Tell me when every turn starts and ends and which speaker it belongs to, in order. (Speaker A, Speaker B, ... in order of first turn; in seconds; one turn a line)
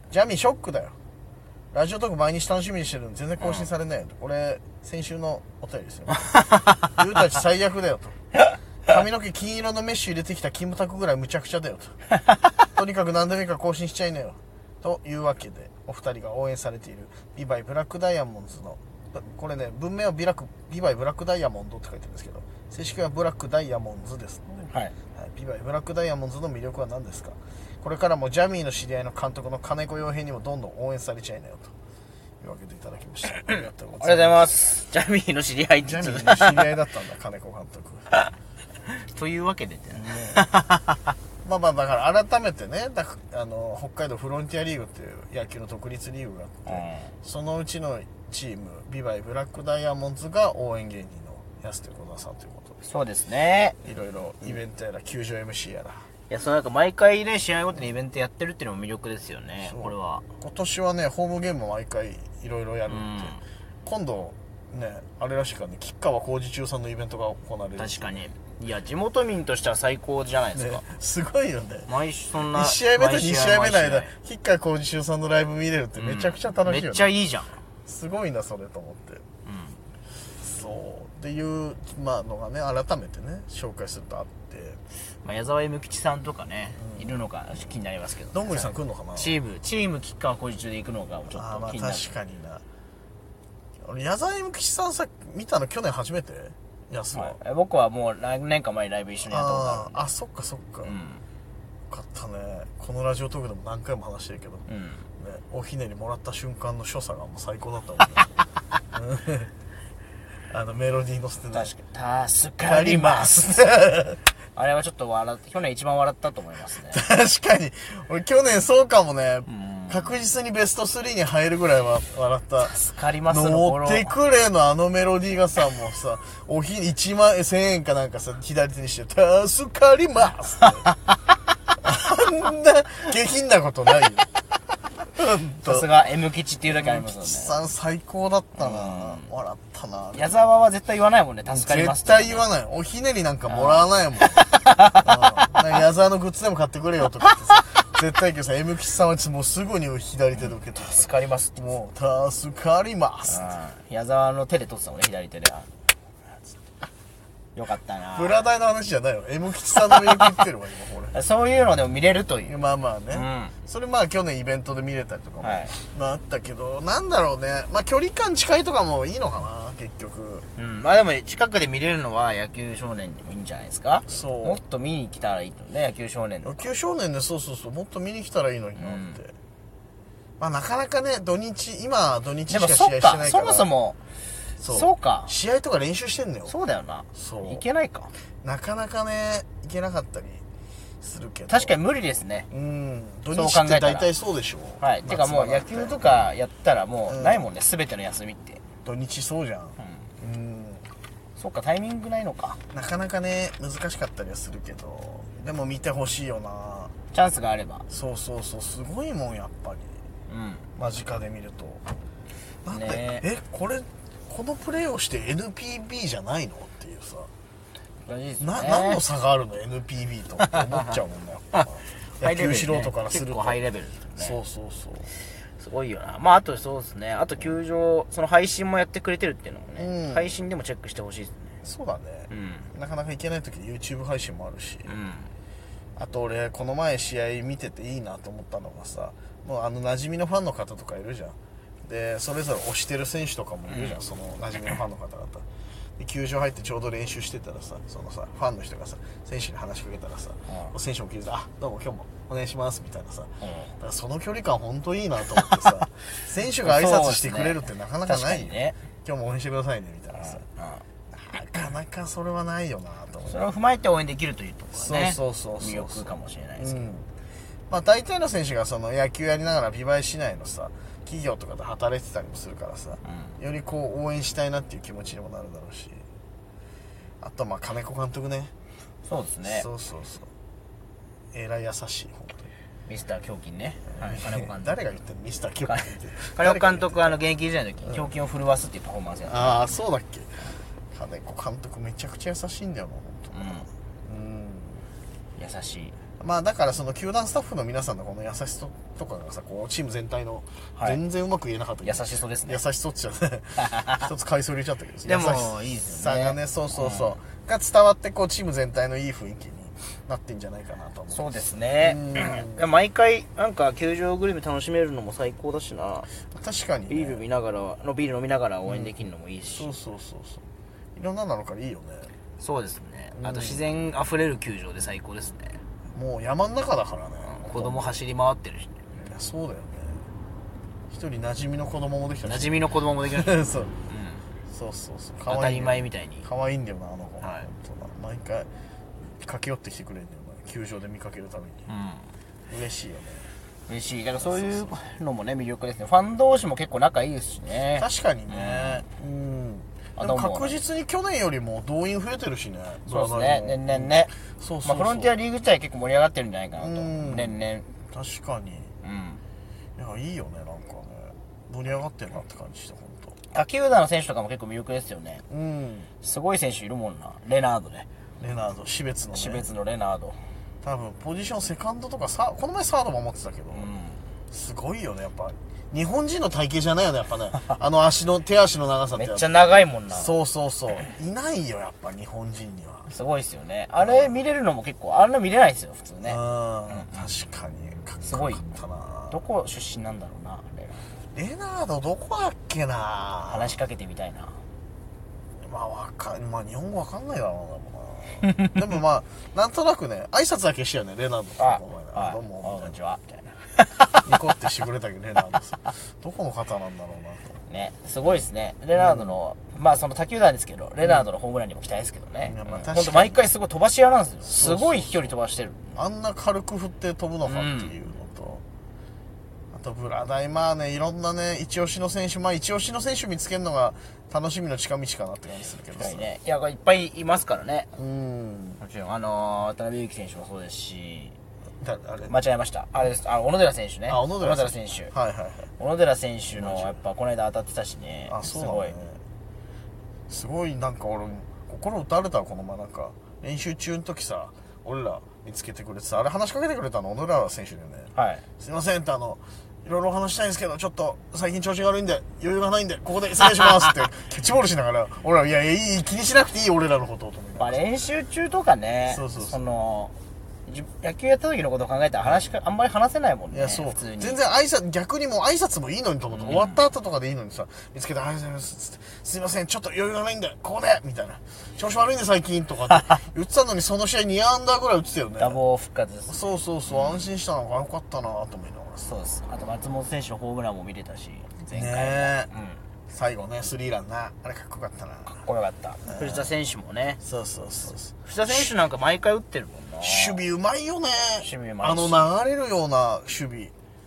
Speaker A: 0.1-1.0
Speaker A: 1.7-8.2
Speaker B: 3.4-3.7
Speaker A: 8.9-12.0
Speaker A: 12.7-31.7
Speaker B: 24.7-24.9
Speaker A: 32.4-34.5
Speaker B: 34.0-36.7
Speaker A: 35.8-38.1
Speaker B: 38.9-41.0
Speaker A: 39.9-40.5
Speaker A: 41.4-52.8
Speaker B: 46.7-47.1
Speaker B: 52.8-53.8
Speaker A: 53.8-56.1
Speaker B: 56.3-60.3
Speaker A: 59.6-68.2
Speaker B: 62.9-63.4
Speaker B: 67.8-70.8
Speaker A: 70.5-77.1
Speaker B: 71.9-74.1
Speaker B: 76.0-77.6
Speaker A: 77.8-79.2
Speaker B: 79.5-79.8
Speaker A: 80.4-84.8
Speaker B: 85.2-92.1
Speaker A: 86.8-87.1
Speaker A: 88.3-89.4
Speaker A: 91.3-92.6
Speaker A: 93.8-97.4
Speaker B: 97.1-100.1
Speaker A: 99.3-101.0
Speaker B: 100.8-101.2
Speaker A: 101.9-104.7
Speaker B: 104.7-105.1
Speaker A: 105.2-108.3
Speaker A: 108.9-109.5
Speaker A: 110.5-111.7
Speaker B: 111.5-113.6
Speaker A: 112.6-114.2
Speaker B: 114.6-117.0
Speaker A: 116.9-130.9
Speaker B: 119.5-120.2
Speaker B: 122.6-124.2
Speaker A: 131.8-134.3
Speaker A: 135.2-135.9
Speaker B: 135.6-137.6
Speaker A: 136.7-140.5
Speaker B: 138.6-139.3
Speaker B: 140.1-142.5
Speaker A: 141.5-153.5
Speaker B: 143.5-145.5
Speaker B: 150.8-151.6
Speaker B: 153.2-155.7
Speaker B: 157.6-158.3
Speaker A: 158.1-161.2
Speaker B: 161.1-162.5
Speaker A: 162.5-170.5
Speaker B: 163.1-163.5
Speaker B: 165.4-165.8
Speaker B: 170.6-176.7
Speaker A: 174.1-174.6
Speaker A: 176.4-179.3
Speaker B: 178.8-179.2
Speaker A: 180.4-183.7
Speaker B: 182.5-184.0
Speaker A: 184.6-186.6
Speaker B: 184.7-185.3
Speaker B: 186.5-188.1
Speaker A: 187.1-187.6
Speaker A: 188.4-190.4
Speaker A: 191.0-191.7
Speaker B: 191.5-192.5
Speaker A: 192.5-196.2
Speaker B: 193.3-194.1
Speaker B: 194.8-198.6
Speaker A: 197.1-197.5
Speaker A: 198.8-200.8
Speaker B: 199.8-200.1
Speaker B: 201.4-202.6
Speaker A: 202.7-206.9
Speaker B: 207.1-207.9
Speaker A: 207.9-210.0
Speaker B: 210.3-210.7
Speaker A: 210.8-211.8
Speaker A: 212.7-217.3
Speaker B: 212.7-213.3
Speaker B: 218.0-219.0
Speaker A: 218.4-223.6
Speaker B: 222.2-224.4
Speaker A: 224.2-225.1
Speaker B: 225.6-231.6
Speaker A: 229.8-230.4
Speaker A: 231.6-234.9
Speaker B: 232.3-232.7
Speaker B: 234.9-235.3
Speaker A: 236.0-245.4
Speaker B: 243.7-244.0
Speaker A: 246.0-260.4
Speaker B: 250.5-250.7
Speaker B: 253.4-253.7
Speaker B: 256.6-258.8
Speaker B: 260.1-260.8
Speaker A: 261.1-263.4
Speaker B: 263.3-266.8
Speaker A: 264.8-267.1
Speaker A: 267.7-276.0
Speaker B: 273.1-273.3
Speaker A: 277.2-278.5
Speaker B: 279.1-279.7
Speaker A: 279.4-280.3
Speaker A: 281.3-282.5
Speaker B: 282.9-284.8
Speaker A: 283.9-287.2
Speaker B: 285.7-289.6
Speaker A: 289.3-294.9
Speaker B: 293.3-293.7
Speaker B: 295.4-296.0
Speaker A: 296.2-312.6
Speaker B: 301.8-302.6
Speaker B: 303.6-304.1
Speaker B: 305.1-307.2
Speaker B: 311.1-316.1
Speaker A: 316.3-317.3
Speaker B: 316.9-319.7
Speaker A: 318.7-318.9
Speaker A: 319.5-320.4
Speaker A: 320.9-322.1
Speaker B: 322.4-325.6
Speaker A: 323.1-323.6
Speaker A: 325.9-328.0
Speaker B: 327.3-328.9
Speaker A: 329.0-330.0
Speaker A: 330.9-333.7
Speaker B: 332.2-334.2
Speaker A: 334.5-338.5
Speaker B: 335.3-336.3
Speaker B: 337.2-337.5
Speaker A: 339.2-341.7
Speaker B: 341.7-342.1
Speaker A: 342.5-343.3
Speaker B: 343.7-348.9
Speaker A: 344.2-344.8
Speaker A: 347.8-355.1
Speaker B: 350.0-350.6
Speaker B: 352.9-357.7
Speaker A: 356.6-357.4
Speaker A: 357.9-358.7
Speaker B: 358.8-359.2
Speaker A: 359.8-363.2
Speaker B: 363.3-365.2
Speaker A: 365.3-365.9
Speaker B: 366.0-367.9
Speaker A: 368.2-369.4
Speaker B: 369.1-370.2
Speaker A: 370.6-373.7
Speaker B: 373.5-374.0
Speaker A: 374.3-379.3
Speaker B: 378.9-380.1
Speaker A: 379.9-382.9
Speaker B: 382.9-387.1
Speaker A: 383.8-384.1
Speaker A: 386.0-389.2
Speaker B: 388.0-388.4
Speaker B: 389.1-390.9
Speaker A: 391.1-393.6
Speaker B: 393.3-394.4
Speaker A: 395.4-402.8
Speaker B: 401.4-404.0
Speaker A: 404.0-407.4
Speaker B: 407.5-415.8
Speaker A: 408.8-409.2
Speaker A: 412.2-413.3
Speaker A: 414.2-415.2
Speaker A: 415.8-418.4
Speaker B: 417.2-417.8
Speaker A: 419.5-426.1
Speaker B: 425.8-427.7
Speaker A: 427.8-428.6
Speaker B: 428.6-431.2
Speaker A: 431.6-432.1
Speaker B: 432.1-434.9
Speaker A: 433.9-435.5
Speaker B: 435.6-438.8
Speaker A: 436.3-436.8
Speaker A: 438.1-439.0
Speaker A: 440.1-457.6
Speaker B: 447.9-448.2
Speaker B: 457.4-464.2
Speaker A: 458.9-459.4
Speaker A: 463.3-475.4
Speaker B: 466.1-466.6
Speaker B: 475.2-477.1
Speaker A: 476.1-479.0
Speaker B: 478.8-482.6
Speaker A: 481.5-482.3
Speaker A: 482.9-485.2
Speaker B: 485.1-487.0
Speaker A: 485.9-486.3
Speaker A: 487.0-488.4
Speaker B: 488.1-490.2
Speaker A: 489.8-493.5
Speaker B: 491.2-492.1